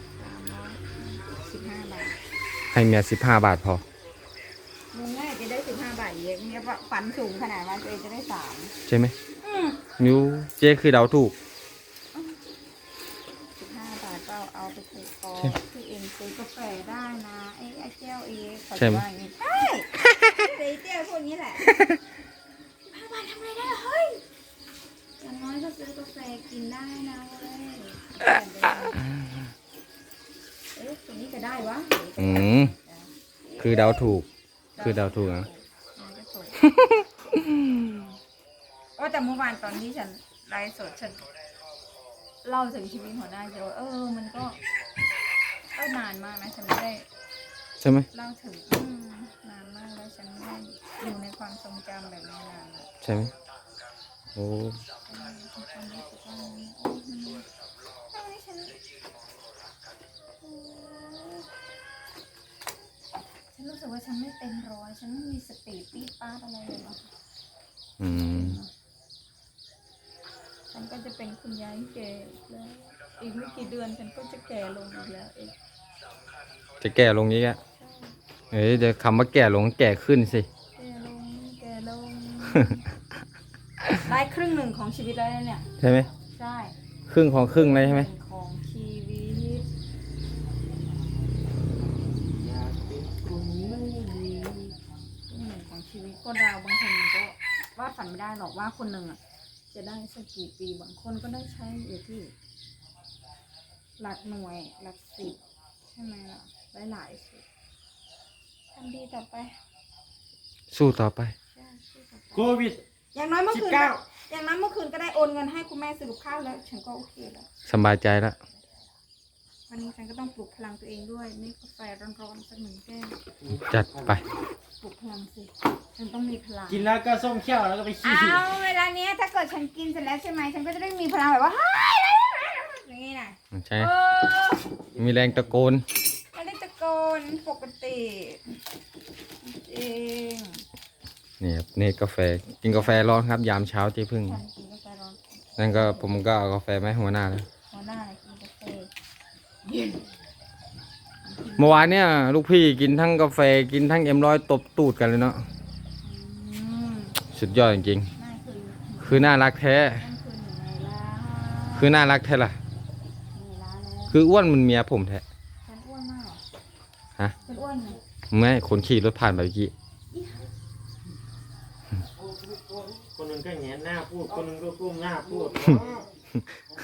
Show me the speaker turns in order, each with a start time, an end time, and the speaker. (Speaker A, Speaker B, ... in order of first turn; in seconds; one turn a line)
Speaker A: 0.2-2.2
Speaker B: 2.7-3.8
Speaker A: 4.9-8.8
Speaker B: 8.9-9.1
Speaker A: 9.4-9.8
Speaker B: 10.0-11.3
Speaker A: 12.2-12.4
Speaker A: 13.6-21.8
Speaker B: 18.8-19.0
Speaker A: 22.9-24.2
Speaker A: 25.2-29.1
Speaker A: 30.7-33.1
Speaker B: 32.2-32.7
Speaker B: 33.6-34.3
Speaker A: 34.8-36.6
Speaker B: 34.8-35.5
Speaker B: 36.7-37.6
Speaker A: 39.0-41.2
Speaker A: 42.4-44.6
Speaker A: 45.8-47.1
Speaker B: 47.8-48.1
Speaker A: 48.1-52.9
Speaker B: 53.0-53.3
Speaker B: 54.4-54.8
Speaker A: 55.1-57.5
Speaker A: 58.1-58.8
Speaker A: 60.4-61.5
Speaker A: 63.5-67.1
Speaker B: 68.0-68.6
Speaker A: 68.3-68.7
Speaker A: 70.7-75.6
Speaker B: 76.8-77.6
Speaker A: 77.8-78.2
Speaker B: 78.5-80.5
Speaker A: 80.8-82.8
Speaker A: 84.0-85.7
Speaker B: 85.8-86.1
Speaker A: 86.3-86.8
Speaker B: 87.1-88.1
Speaker A: 87.5-89.7
Speaker C: 91.9-94.8
Speaker A: 95.3-99.2
Speaker A: 99.7-102.3
Speaker A: 104.0-105.4
Speaker A: 105.9-107.4
Speaker A: 108.7-109.5
Speaker B: 110.7-111.3
Speaker A: 111.5-112.5
Speaker C: 112.3-112.8
Speaker A: 113.1-117.5
Speaker C: 113.5-114.0
Speaker B: 117.7-118.4
Speaker A: 119.7-123.2
Speaker C: 123.4-124.2
Speaker B: 123.5-124.2
Speaker A: 124.8-126.9
Speaker C: 126.7-128.4
Speaker A: 128.0-134.8
Speaker B: 133.6-133.9
Speaker C: 134.9-135.5
Speaker B: 135.0-135.8
Speaker A: 136.3-138.6
Speaker A: 139.4-140.6
Speaker B: 141.4-144.4
Speaker A: 144.2-146.2
Speaker B: 145.6-147.5
Speaker A: 147.7-148.9
Speaker A: 149.7-150.1
Speaker A: 151.2-151.9
Speaker B: 151.6-155.4
Speaker A: 156.0-157.2
Speaker B: 157.3-158.1
Speaker A: 158.2-162.0
Speaker B: 159.0-160.0
Speaker B: 161.8-162.6
Speaker A: 163.3-164.2
Speaker B: 164.1-165.2
Speaker A: 165.7-166.4
Speaker A: 167.4-168.0
Speaker B: 168.3-169.7
Speaker A: 170.1-170.4
Speaker C: 172.8-176.1